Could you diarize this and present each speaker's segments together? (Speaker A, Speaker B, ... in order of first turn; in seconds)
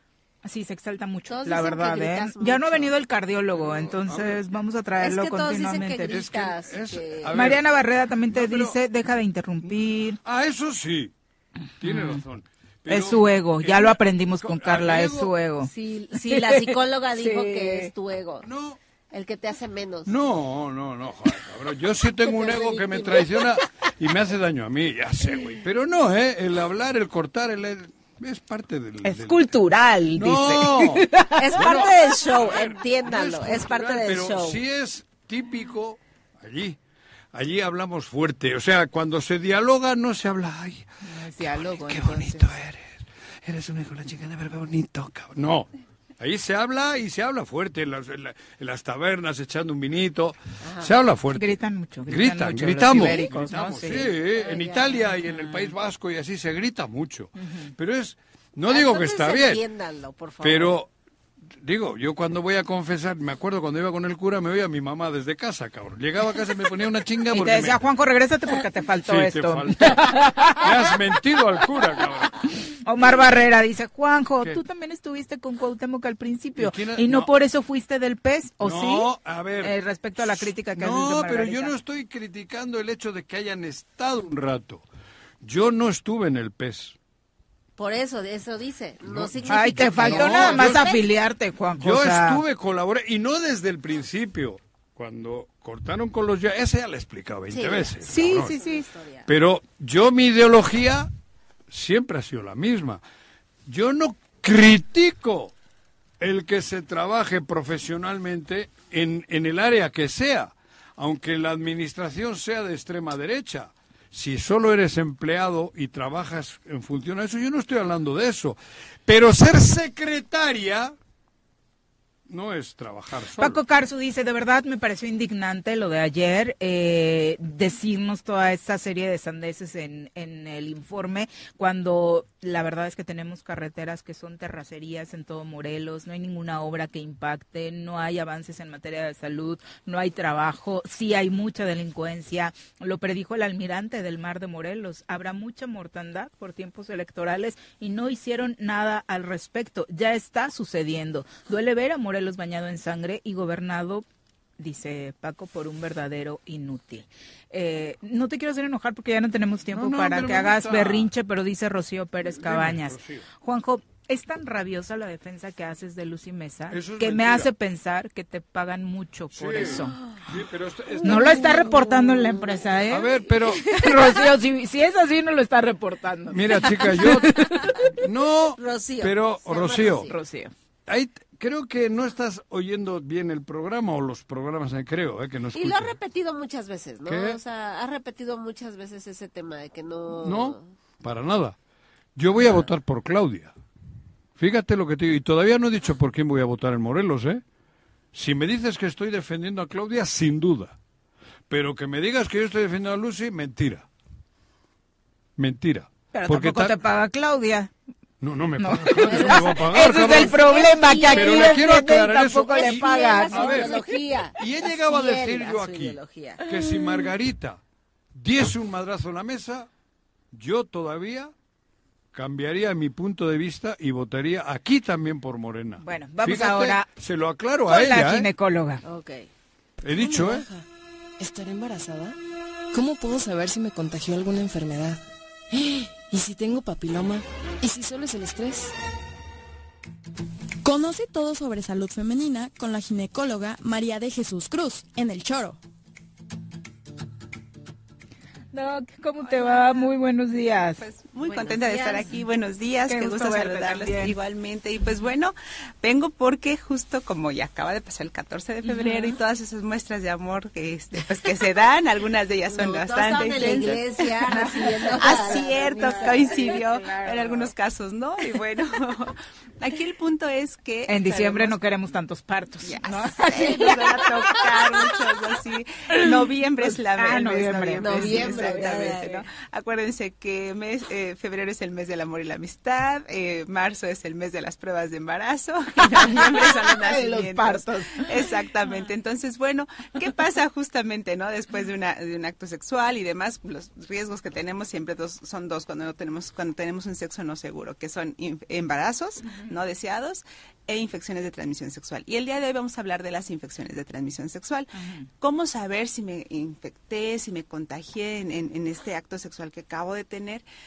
Speaker A: 0.4-6.2, 7.3-10.2, 11.8-12.2, 12.9-17.9, 29.0-32.2, 41.0-42.5, 51.4-54.1, 55.3-55.7, 57.4-57.7, 67.3-70.7, 72.8-81.8, 89.5-92.4, 98.1-98.9, 123.4-154.1, 154.6-170.0, 171.0-177.9, 180.1-180.5, 206.1-207.7, 208.6-213.9, 225.8-226.9, 227.7-228.8, 248.5-252.1, 252.8-254.2, 258.6-259.2, 263.3-267.5, 270.9-274.9, 275.9-279.3, 285.8-288.8, 299.3-299.5, 304.8-305.1
Speaker B: 1.3-2.9, 5.0-7.5, 15.6-18.5, 19.1-20.1, 22.2-23.6, 31.4-34.6, 50.6-50.9, 53.0-53.3, 54.2-55.1, 58.7-60.8, 87.8-91.1, 97.5-99.3, 171.0-172.8, 173.6-174.2, 178.6-180.1, 185.5-190.7, 192.4-192.7, 209.0-211.7, 212.5-216.4, 228.8-229.3, 251.2-252.1, 262.5-266.5, 273.4-274.0, 277.8-279.1
Speaker C: 3.5-4.4, 6.1-7.7, 8.3-8.8, 9.6-11.1, 11.8-15.3, 18.4-18.8, 20.1-29.4, 30.1-36.8, 37.3-59.6, 60.4-60.9, 61.5-67.8, 69.1-72.4, 76.6-77.3, 78.6-84.8, 85.4-87.0, 89.0-90.9, 91.8-98.5, 99.3-101.1, 101.7-103.0, 103.7-105.5, 106.2-121.0, 122.3-123.6, 159.7-161.1, 162.2-163.2, 166.7-167.5, 169.3-171.7, 172.9-173.7, 176.3-177.4, 178.0-180.1, 180.9-186.0, 187.1-187.4, 190.2-191.6, 192.2-193.5, 194.4-197.4, 198.1-200.8, 201.5-203.9, 205.4-206.8, 208.2-210.4, 211.1-217.6, 218.1-219.7, 220.3-221.3, 222.1-228.3, 229.8-230.5
Speaker D: 231.2-232.2, 232.7-238.7
Speaker E: 240.7-245.6
Speaker F: 249.2-249.9, 250.8-264.4, 265.0-271.6, 272.6-310.4